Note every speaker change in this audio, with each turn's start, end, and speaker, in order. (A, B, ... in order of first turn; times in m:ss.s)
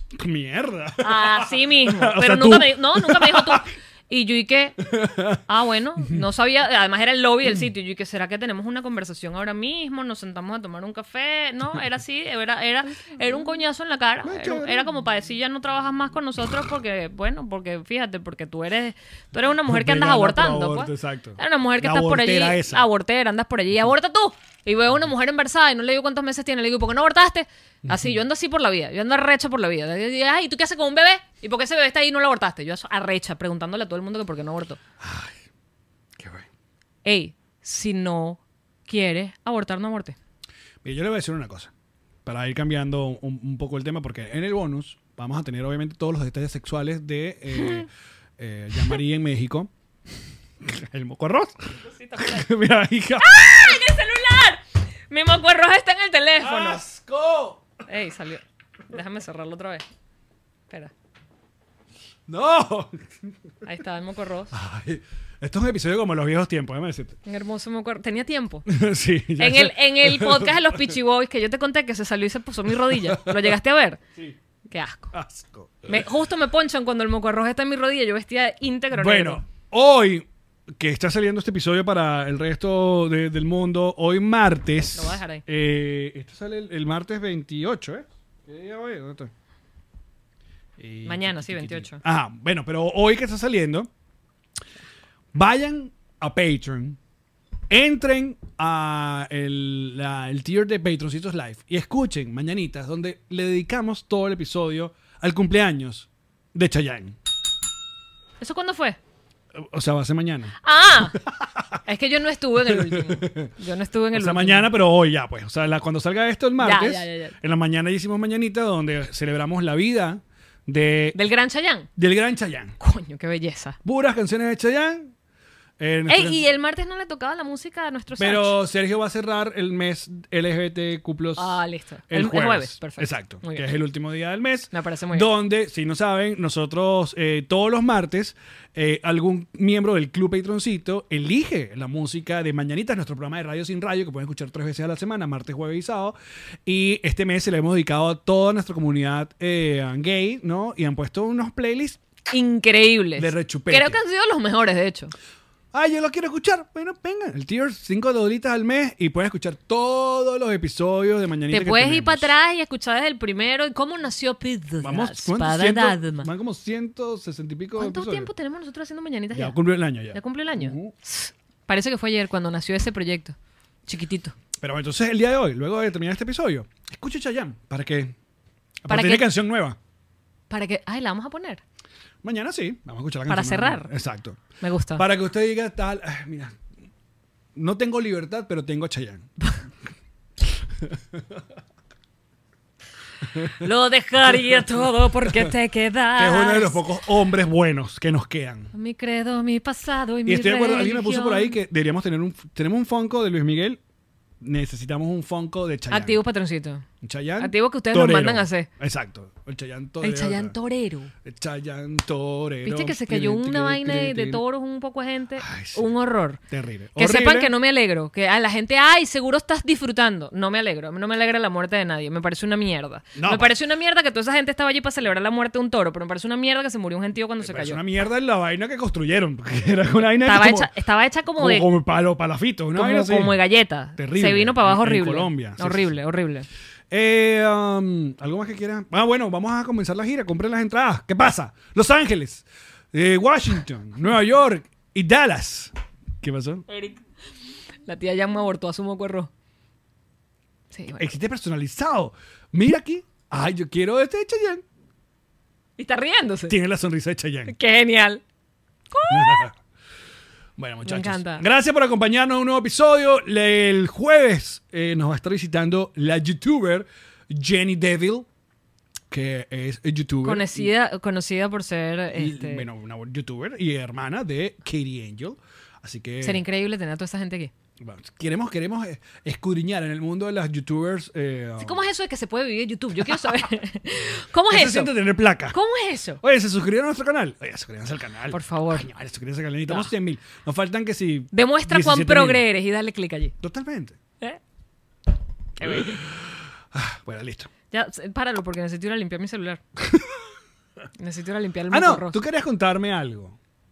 0:00.2-0:03.7 A
0:01.0-0:04.8 B
0:04.9-0:05.4 A
0:05.5-0:34.8 B
0:14.2-0:14.8 A
0:19.7-0:22.9 A
0:35.0-0:35.4 A
0:36.2-0:36.5 A
0:37.0-0:40.2 B
0:40.8-0:41.7 A
0:42.2-0:49.7 A
0:47.6-0:47.8 B
0:50.6-0:53.4 A
0:51.8-0:52.5 B
0:53.2-0:56.8 B
0:56.4-0:57.7 A
0:57.9-0:59.8 B
1:02.3-1:03.0 A
1:03.6-1:04.5 B
1:04.5-1:07.2 A
1:07.2-1:08.7 B
1:08.7-1:10.6 A
1:09.4-1:14.0 B
1:12.9-1:13.4 A
1:14.7-1:15.1 B
1:15.1-1:16.0 A
1:15.9-1:19.4 B
1:18.9-1:20.3 A
1:20.8-1:29.3 A
1:24.9-1:25.4 B
1:30.8-1:33.9 A
1:31.0-1:32.0 B
1:35.3-1:37.0 A
1:37.7-1:47.2 A
1:48.4-1:49.0 B
1:49.6-1:50.6 A
1:50.6-1:51.2 B
1:51.3-1:51.8 A
1:51.8-1:54.7 B
1:52.6-1:53.5 A
1:54.2-2:01.2 A
1:56.6-1:57.4 B
2:01.1-2:01.9 B
2:02.0-2:02.8 A
2:02.8-2:03.8 B
2:03.8-2:05.1 A
2:05.8-2:06.4 A
2:06.1-2:08.6 B
2:08.2-2:26.2 A
2:11.4-2:13.7 B
2:14.7-2:15.3 B
2:26.7-2:32.0 A
2:32.3-2:35.1 B
2:33.2-2:34.0 A
2:35.7-2:42.3 A
2:41.5-2:46.3 B
2:44.8-2:48.3 A
2:47.8-2:49.6 B
2:49.3-2:50.9 A
2:50.1-2:53.4 B
2:53.9-2:54.4 B
2:54.6-2:58.2 A
2:58.8-2:59.8 A
2:58.9-2:59.3 B
3:00.5-3:01.6 B
3:02.2-3:04.4 A
3:03.3-3:03.9 B
3:04.6-3:05.0 B
3:05.0-3:06.6 A
3:07.6-3:09.3 A
3:10.8-3:11.4 A
3:13.5-3:16.8 B
3:16.2-3:18.7 A
3:18.7-3:21.6 B
3:20.3-3:23.8 A
3:24.4-3:26.2 A
3:25.9-3:26.9 B
3:27.0-3:30.6 A
3:27.4-3:28.7 B
3:30.0-3:31.1 B
3:31.2-3:34.4 A
3:32.6-3:36.4 B
3:35.4-3:35.9 A
3:36.5-3:37.5 A
3:37.0-3:47.8 B
3:43.2-3:43.6 A
3:47.4-3:50.7 A
3:50.2-3:51.7 B
3:51.4-3:53.4 A
3:52.8-3:56.5 B
3:54.0-3:56.0 A
3:56.9-4:06.7 A
4:06.7-4:07.0 B
4:07.8-4:09.3 B
4:10.7-4:11.1 B
4:11.0-4:14.6 A
4:15.8-4:16.6 B
4:16.5-4:17.5 A
4:17.5-4:18.2 B
4:18.9-4:19.5 B
4:19.1-4:19.6 A
4:20.6-4:28.3 A
4:20.8-4:21.5 B
4:29.1-4:30.7 A
4:30.2-4:32.7 B
4:32.1-4:36.4 A
4:36.2-4:37.5 B
4:37.8-4:41.8 A
4:41.6-4:44.9 B
4:44.5-4:45.6 A
4:45.5-4:46.2 B
4:46.2-4:52.5 A
4:48.3-4:48.9 B
4:51.3-4:53.4 B
4:53.4-4:54.0 A
4:55.6-4:56.2 B
4:55.6-4:57.5 A
4:57.7-4:59.6 B
5:01.0-5:02.2 B
5:01.7-5:03.4 A